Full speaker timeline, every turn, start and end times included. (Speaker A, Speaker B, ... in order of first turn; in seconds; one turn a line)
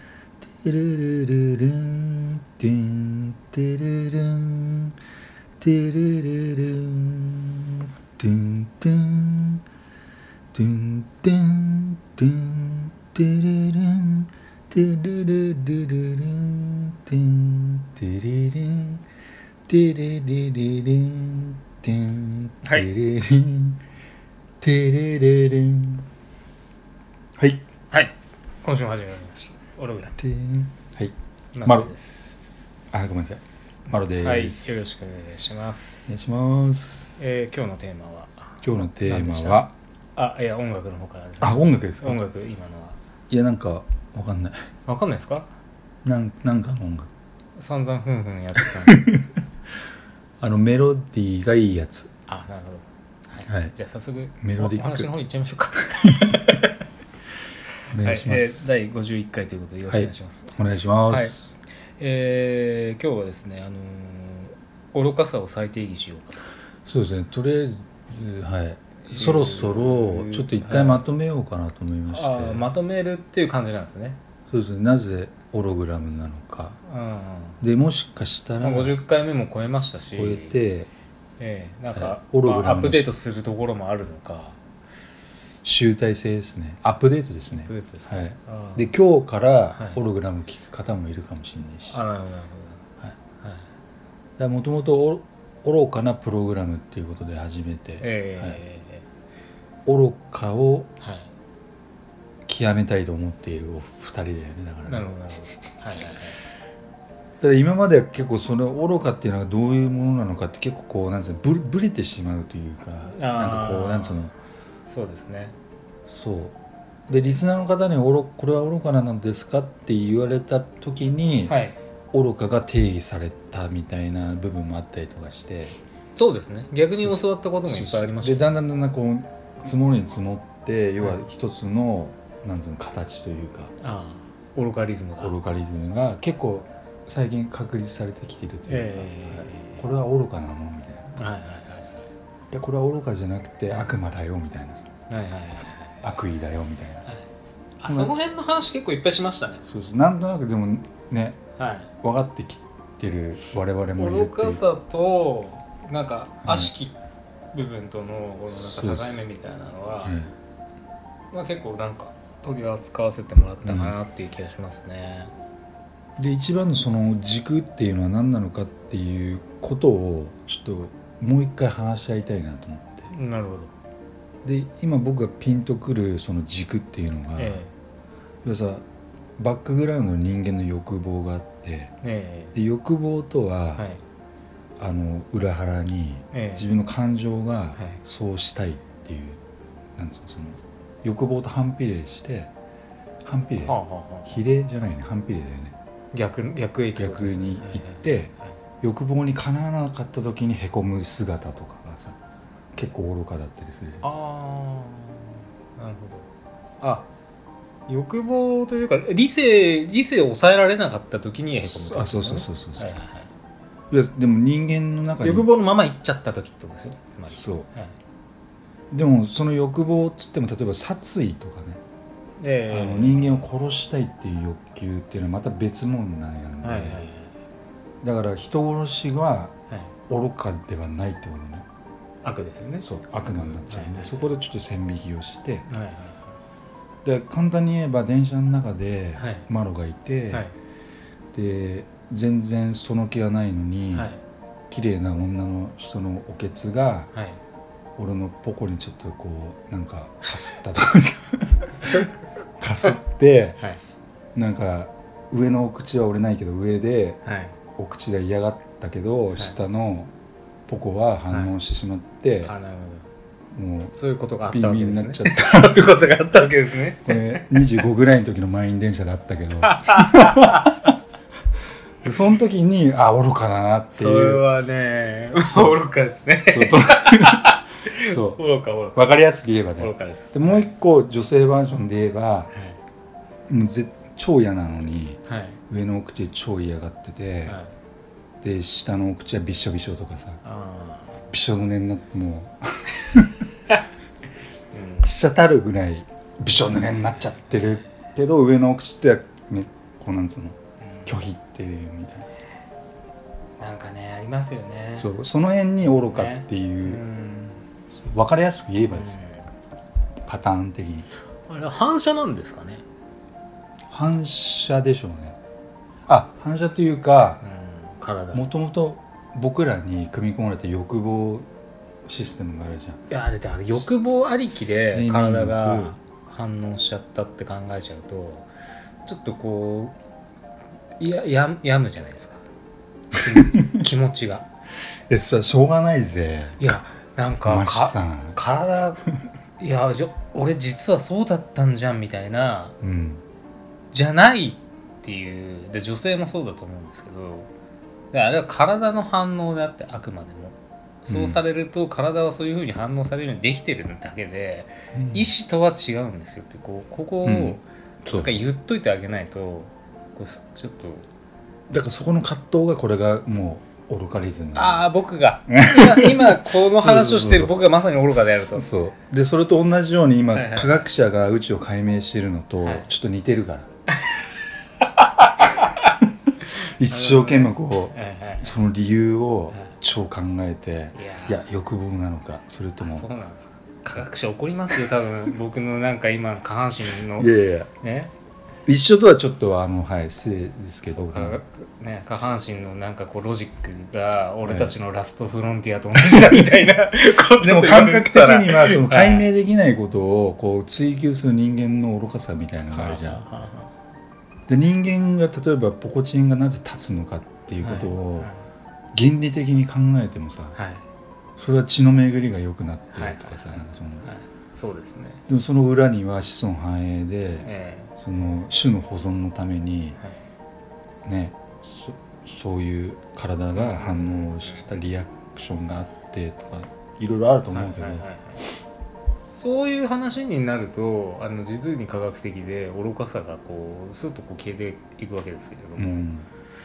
Speaker A: 0.4-5.0
Speaker A: 5.6-9.6
Speaker A: 10.5-19.0
Speaker A: 19.7-23.8
Speaker A: 24.6-26.0
Speaker B: 27.9-30.1
Speaker A: 30.1-31.9
Speaker B: 31.5-32.7
Speaker A: 32.9-34.8
Speaker B: 34.2-36.1
Speaker A: 36.1-37.2
Speaker B: 37.2-43.0
Speaker A: 38.6-39.7
Speaker A: 41.4-42.2
Speaker A: 43.3-44.5
Speaker B: 44.9-45.5
Speaker A: 46.0-47.1
Speaker B: 47.5-49.0
Speaker A: 48.6-49.4
Speaker A: 50.4-52.1
Speaker B: 52.3-56.7
Speaker A: 53.5-53.7
Speaker A: 54.4-55.1
Speaker A: 56.0-56.4
Speaker A: 57.9-58.8
Speaker B: 58.0-60.5
Speaker A: 59.9-61.5
Speaker B: 61.1-61.3
Speaker B: 62.0-66.5
Speaker A: 66.8-72.7
Speaker B: 69.1-71.0
Speaker B: 72.1-74.2
Speaker A: 74.5-76.8
Speaker B: 76.8-77.6
Speaker A: 77.6-79.0
Speaker B: 78.6-80.6
Speaker A: 80.1-80.9
Speaker B: 81.4-84.6
Speaker A: 81.9-83.1
Speaker A: 85.6-92.0
Speaker B: 87.7-88.8
Speaker B: 89.7-90.0
Speaker B: 91.9-92.8
Speaker B: 93.4-93.7
Speaker A: 94.4-98.6
Speaker B: 98.0-99.0
Speaker A: 99.8-100.9
Speaker B: 101.0-101.3
Speaker A: 102.5-105.1
Speaker B: 104.8-106.4
Speaker A: 107.4-114.3
Speaker B: 113.1-114.3
Speaker B: 114.9-115.5
Speaker A: 116.1-116.5
Speaker A: 117.1-121.6
Speaker B: 121.5-121.8
Speaker A: 122.1-125.8
Speaker B: 126.2-128.6
Speaker A: 126.9-133.7
Speaker B: 133.8-135.3
Speaker A: 135.2-141.2
Speaker B: 138.7-139.8
Speaker B: 141.2-142.0
Speaker A: 142.5-144.9
Speaker B: 143.7-143.9
Speaker B: 145.1-146.0
Speaker A: 146.0-147.1
Speaker B: 147.8-149.6
Speaker A: 147.9-148.1
Speaker A: 149.6-151.4
Speaker B: 151.6-151.9
Speaker A: 152.0-154.6
Speaker B: 153.9-156.9
Speaker A: 156.4-156.7
Speaker B: 157.5-160.2
Speaker A: 158.5-159.3
Speaker A: 160.0-160.3
Speaker B: 161.3-165.3
Speaker A: 163.6-163.9
Speaker A: 166.2-173.1
Speaker B: 173.1-173.7
Speaker A: 174.4-177.6
Speaker B: 177.3-177.7
Speaker A: 178.4-178.8
Speaker A: 179.4-181.9
Speaker B: 182.0-182.5
Speaker A: 182.5-183.8
Speaker A: 184.8-189.4
Speaker B: 186.3-186.7
Speaker A: 190.0-192.5
Speaker A: 193.2-195.8
Speaker B: 193.6-194.4
Speaker B: 196.1-198.2
Speaker A: 196.9-202.2
Speaker A: 202.7-204.1
Speaker B: 204.0-206.3
Speaker B: 206.8-207.1
Speaker B: 207.9-213.3
Speaker A: 211.6-212.9
Speaker A: 213.9-215.5
Speaker B: 215.2-217.9
Speaker A: 217.3-217.7
Speaker A: 218.9-221.8
Speaker B: 222.4-223.4
Speaker A: 222.7-227.1
Speaker B: 226.6-227.3
Speaker A: 228.0-229.5
Speaker A: 230.1-231.6
Speaker B: 232.2-234.3
Speaker A: 232.8-235.7
Speaker B: 235.7-236.3
Speaker A: 237.0-240.5
Speaker B: 239.2-239.5
Speaker A: 241.3-244.1
Speaker B: 243.9-244.2
Speaker A: 244.7-247.1
Speaker B: 247.1-247.4
Speaker A: 248.0-253.6
Speaker A: 254.3-257.2
Speaker B: 257.2-257.5
Speaker A: 257.8-260.1
Speaker A: 260.7-262.5
Speaker B: 262.4-263.1
Speaker A: 263.5-263.9
Speaker B: 263.9-267.8
Speaker A: 264.5-265.9
Speaker A: 267.0-270.9
Speaker B: 269.7-270.8
Speaker A: 272.0-274.4
Speaker B: 273.9-279.1
Speaker A: 275.4-275.8
Speaker A: 276.4-278.4
Speaker A: 278.9-282.5
Speaker B: 279.8-280.7
Speaker B: 282.5-282.8
Speaker A: 283.5-287.6
Speaker B: 285.3-285.6
Speaker B: 287.4-287.7
Speaker A: 288.4-290.4
Speaker B: 290.4-291.2
Speaker A: 291.3-293.5
Speaker B: 294.7-295.1
Speaker A: 295.0-302.3
Speaker B: 297.0-297.7
Speaker B: 300.8-301.2
Speaker B: 303.6-305.1
Speaker A: 304.9-307.0
Speaker B: 306.1-307.6
Speaker A: 308.0-309.2
Speaker B: 308.9-309.5
Speaker A: 310.3-311.1
Speaker B: 311.5-312.8
Speaker A: 313.9-315.4
Speaker A: 316.1-317.4
Speaker B: 317.4-318.4
Speaker A: 318.3-321.5
Speaker A: 322.1-323.0
Speaker B: 323.1-328.5
Speaker A: 324.5-325.9
Speaker B: 329.0-329.9
Speaker B: 331.0-332.4
Speaker B: 333.1-334.5
Speaker A: 333.2-333.9
Speaker A: 335.1-336.6
Speaker B: 336.6-339.0
Speaker A: 337.4-338.4
Speaker B: 339.6-342.7
Speaker A: 342.8-343.2
Speaker B: 343.9-347.5
Speaker B: 348.1-361.1
Speaker A: 351.1-351.4
Speaker A: 354.9-355.3
Speaker A: 357.2-358.4
Speaker A: 361.7-364.9
Speaker B: 364.5-368.7
Speaker A: 365.5-367.6
Speaker A: 368.3-373.7
Speaker B: 370.3-370.8
Speaker B: 372.6-372.9
Speaker B: 374.0-374.3
Speaker B: 374.8-375.9
Speaker A: 376.6-383.1
Speaker B: 376.9-378.5
Speaker B: 380.9-381.4
Speaker B: 382.8-387.3
Speaker A: 387.1-387.7
Speaker B: 387.8-388.1
Speaker A: 388.7-391.4
Speaker B: 390.8-399.3
Speaker A: 394.4-394.8
Speaker A: 396.0-396.7
Speaker A: 397.3-403.2
Speaker B: 402.7-403.7
Speaker A: 404.5-408.3
Speaker B: 407.6-408.4
Speaker A: 408.9-410.6
Speaker B: 410.5-410.8
Speaker A: 411.4-414.1
Speaker B: 412.9-415.2
Speaker A: 415.3-420.0
Speaker B: 417.4-417.9
Speaker A: 421.0-428.1
Speaker B: 423.5-424.6
Speaker B: 427.5-428.4
Speaker B: 429.3-436.0
Speaker A: 435.8-436.3